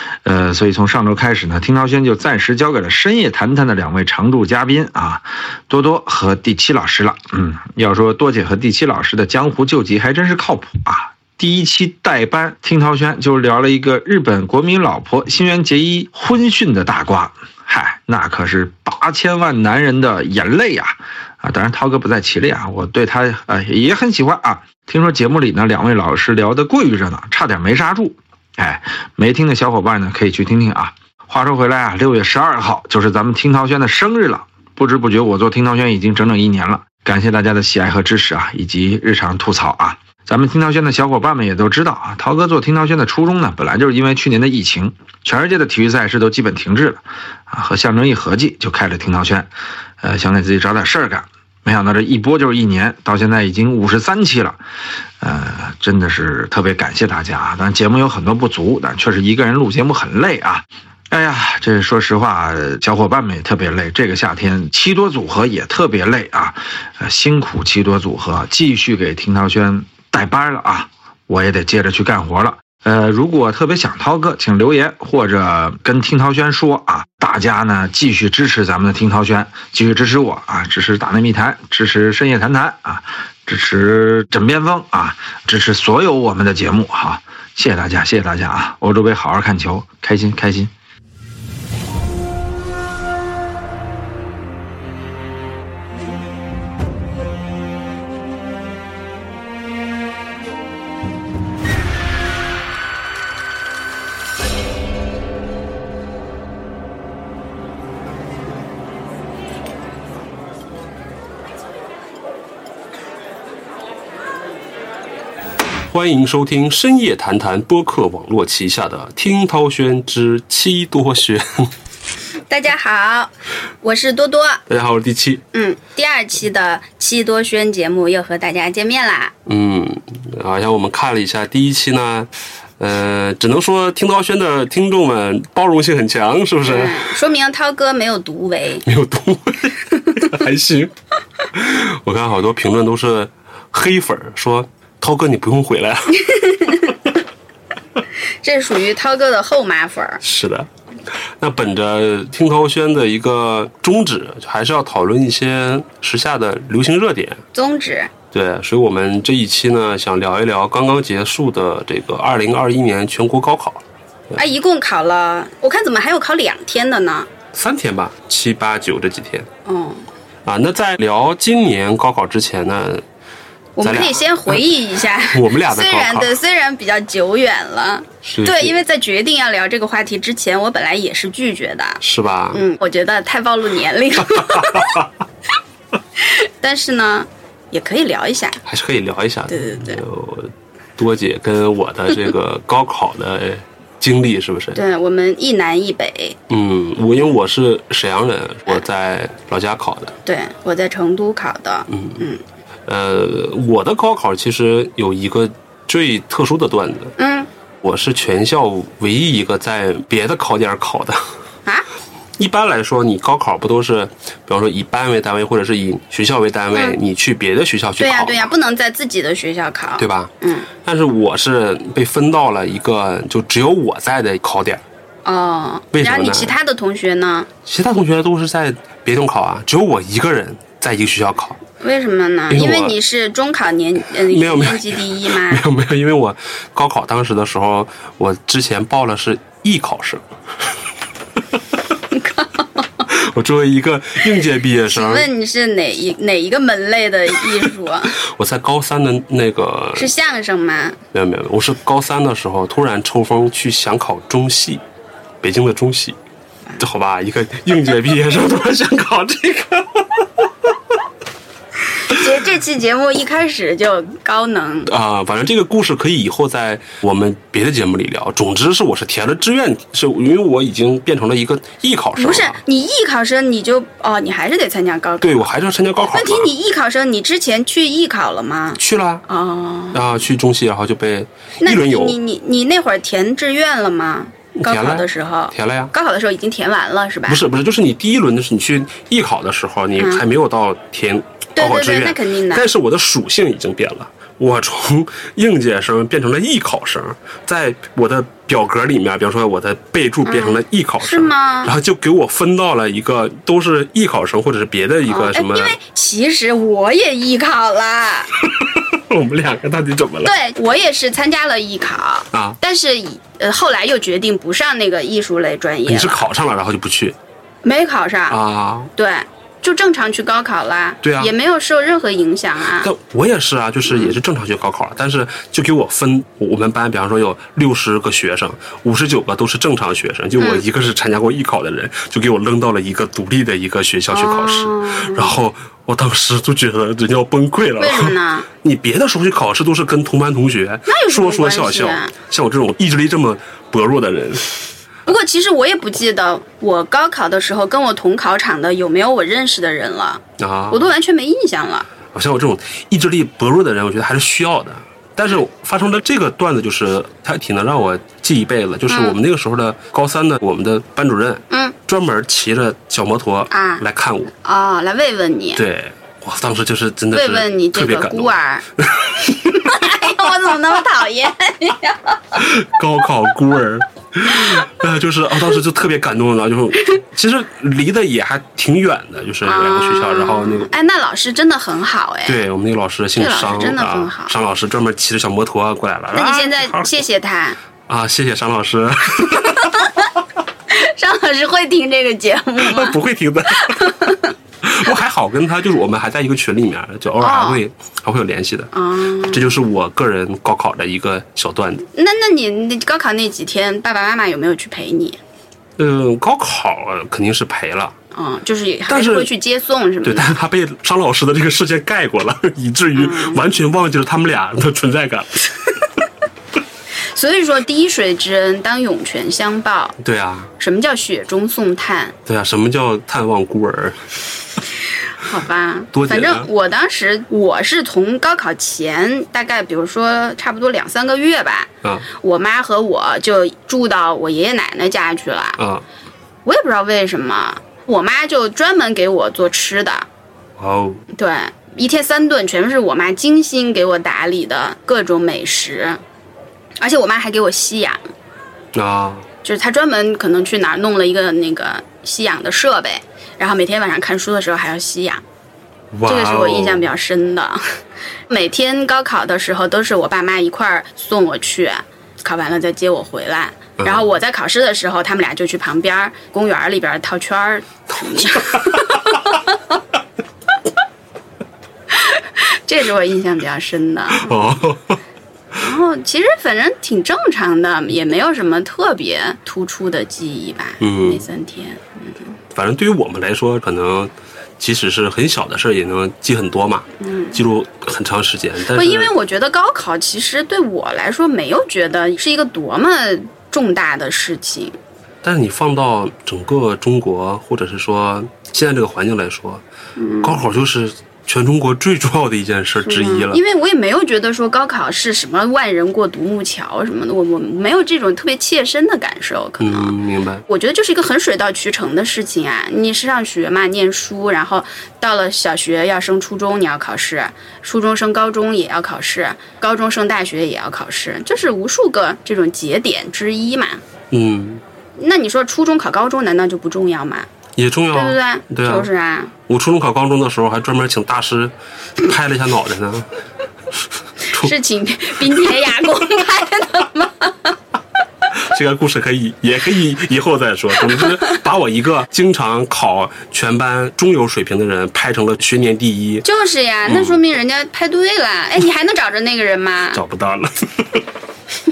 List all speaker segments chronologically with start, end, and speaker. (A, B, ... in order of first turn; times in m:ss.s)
0:00.2-0:49.5 A
0:50.0-0:54.6 A
0:55.2-1:30.7 A
1:55.9-2:01.7 B
2:02.5-2:04.6 C
2:04.7-2:05.4 B
2:05.5-2:09.3 C
2:09.5-2:17.1 B
2:16.6-2:18.8 C
2:18.8-2:20.9 B
2:20.0-2:20.4 C
2:21.5-2:26.8 B
2:26.3-2:27.0 C
2:28.4-2:30.2 C
2:30.2-2:30.7 B
2:31.4-2:37.4 B
2:37.5-2:38.1 C
2:38.3-2:44.4 B
2:44.4-2:47.3 C
2:47.5-2:49.5 B
2:49.7-2:50.0 C
2:50.4-2:53.0 B
2:53.8-3:05.1 C
2:53.8-2:56.3 B
2:58.2-2:58.8 B
3:02.0-3:02.6 B
3:04.3-3:05.0 B
3:06.2-3:08.6 C
3:08.7-3:14.8 B
3:09.5-3:10.0 C
3:14.7-3:16.4 C
3:16.5-3:20.2 B
3:20.2-3:22.4 C
3:21.9-3:22.2 B
3:22.9-3:27.1 B
3:27.2-3:27.5 C
3:27.8-3:31.2 B
3:32.4-3:38.5 B
3:38.0-3:40.7 C
3:40.0-3:40.3 B
3:40.8-3:44.8 B
3:45.2-3:47.5 C
3:45.9-3:46.6 B
3:47.7-3:51.6 B
3:51.8-3:55.6 C
3:52.5-3:53.0 B
3:54.2-4:00.2 B
4:02.1-4:03.0 C
4:03.1-4:05.3 B
4:04.9-4:08.2 C
4:08.2-4:10.1 B
4:10.0-4:11.0 C
4:11.1-4:14.8 B
4:15.4-4:16.2 B
4:16.8-4:20.7 B
4:22.0-4:24.9 C
4:24.9-4:32.6 B
4:32.2-4:35.5 C
4:35.2-4:36.5 B
4:36.1-4:40.1 C
4:38.8-4:39.2 B
4:39.9-4:42.2 B
4:41.6-4:47.4 C
4:44.6-4:45.9 B
4:47.3-5:05.8 B
4:50.0-4:50.2 C
4:51.6-4:52.7 C
5:00.2-5:01.7 C
5:05.1-5:08.3 C
5:08.4-5:10.4 B
5:10.2-5:16.3 C
5:12.3-5:12.6 B
5:15.9-5:17.2 B
5:17.6-5:18.4 C
5:18.3-5:18.9 B
5:19.0-5:22.9 C
5:21.0-5:21.3 B
5:22.8-5:44.7 B
5:23.9-5:24.2 C
5:30.4-5:30.6 C
5:34.1-5:35.4 C
5:37.8-5:38.5 C
5:40.9-5:42.1 C
5:45.1-5:51.9 C
5:50.4-5:50.9 B
5:52.1-6:04.3 B
5:58.9-5:59.2 C
6:01.5-6:01.8 C
6:03.5-6:03.8 C
6:04.4-6:05.6 C
6:05.6-6:10.0 B
6:07.1-6:08.6 C
6:09.4-6:12.4 C
6:12.4-6:20.7 B
6:19.4-6:22.4 C
6:22.3-6:27.0 B
6:23.2-6:24.3 C
6:26.1-6:27.6 C
6:27.9-6:29.9 B
6:29.3-6:30.1 C
6:30.7-6:33.0 C
6:32.6-6:33.9 B
6:33.5-6:34.3 C
6:34.6-6:41.8 B
6:37.2-6:37.6 C
6:38.7-6:39.5 C
6:42.0-6:45.2 C
6:45.8-6:48.0 B
6:48.1-6:50.3 C
6:48.9-6:49.3 B
6:50.0-6:55.5 B
6:53.0-6:53.4 C
6:57.0-7:00.0 C
7:00.0-7:00.5 B
7:00.6-7:02.2 C
7:02.3-7:04.1 B
7:05.2-7:15.6 C
7:05.9-7:06.5 B
7:15.6-7:15.8 B
7:16.5-7:20.1 C
7:20.6-7:21.0 B
7:21.1-7:26.0 C
7:26.8-7:28.0 C
7:28.7-7:29.3 B
7:29.4-7:35.2 C
7:35.9-7:36.9 B
7:36.0-7:37.6 C
7:38.3-7:49.6 C
7:43.8-7:44.1 B
7:48.0-7:49.2 B
7:51.9-7:54.6 C
7:54.1-7:55.0 B
7:55.6-8:02.3 C
8:00.8-8:01.3 B
8:02.5-8:09.1 B
8:07.0-8:07.4 C
8:08.7-8:14.8 C
8:15.2-8:19.6 B
8:20.0-8:20.4 C
8:20.2-8:23.4 B
8:22.8-8:29.9 C
8:29.6-8:30.4 B
8:30.5-8:43.8 C
8:44.1-8:44.6 B
8:45.0-8:47.3 C
8:47.6-8:48.9 B
8:47.9-8:49.3 C
8:49.5-8:53.1 B
8:54.3-8:57.6 C
8:58.4-9:06.3 B
9:01.0-9:01.4 C
9:06.2-9:10.0 C
9:06.9-9:07.2 B
9:09.9-9:11.0 B